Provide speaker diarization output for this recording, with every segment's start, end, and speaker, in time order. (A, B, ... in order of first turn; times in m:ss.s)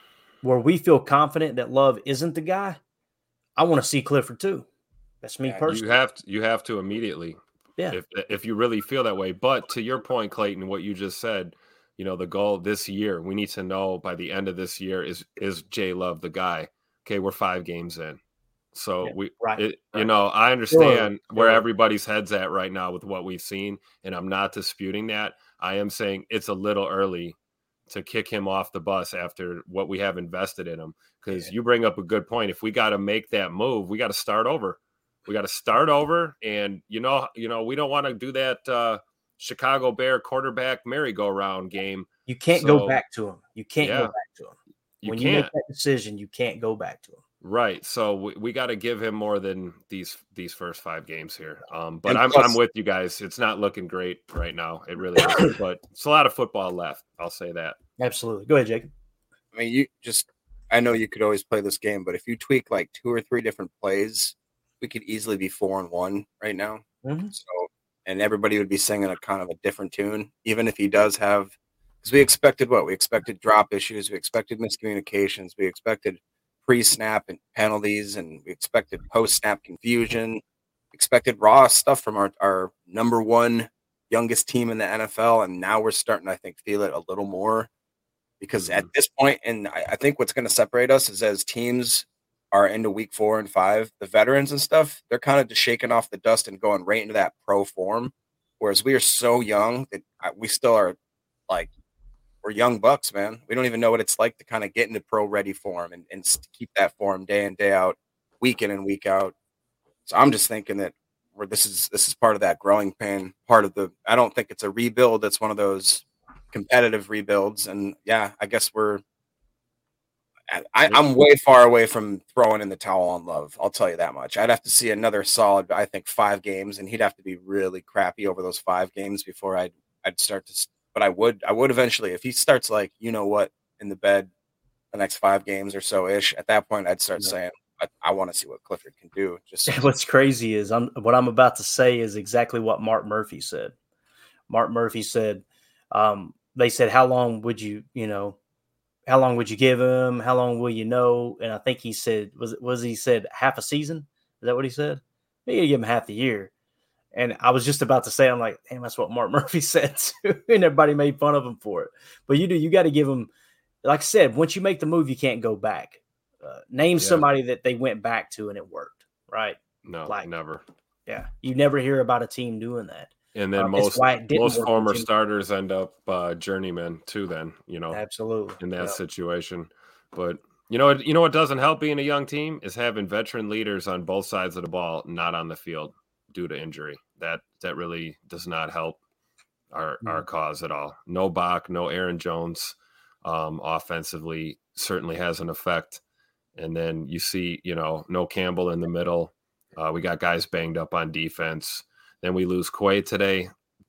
0:00.4-0:02.8 A
0:03.6-0:04.6 A
0:05.2-0:06.0 A
0:05.7-0:07.4 B
0:07.9-0:18.2 B
0:18.7-0:27.4 B
0:19.0-0:20.1 A
0:20.7-0:21.6 A
0:27.9-0:43.0 B
0:42.3-0:44.5 A
0:43.8-0:44.1 B
0:45.0-0:45.5 B
0:45.0-0:47.2 A
0:47.4-0:57.8 B
0:52.1-0:52.5 C
0:55.2-0:55.5 A
0:58.0-0:58.9 A
0:59.5-1:20.4 C
1:07.0-1:07.3 A
1:20.9-1:27.7 C
1:28.4-1:41.0 C
1:42.4-1:49.3 C
1:50.0-1:59.0 C
2:00.5-2:14.3 C
2:14.9-2:19.9 C
2:19.7-2:23.7 A
2:24.5-2:28.4 A
2:29.1-2:36.5 A
2:37.1-2:43.3 A
2:43.8-2:50.3 A
2:47.0-2:47.2 B
2:49.8-2:50.6 B
2:51.1-2:55.1 A
2:53.3-2:58.0 B
2:57.9-2:59.0 A
2:58.6-3:09.0 B
3:09.7-3:16.0 B
3:16.6-3:23.5 B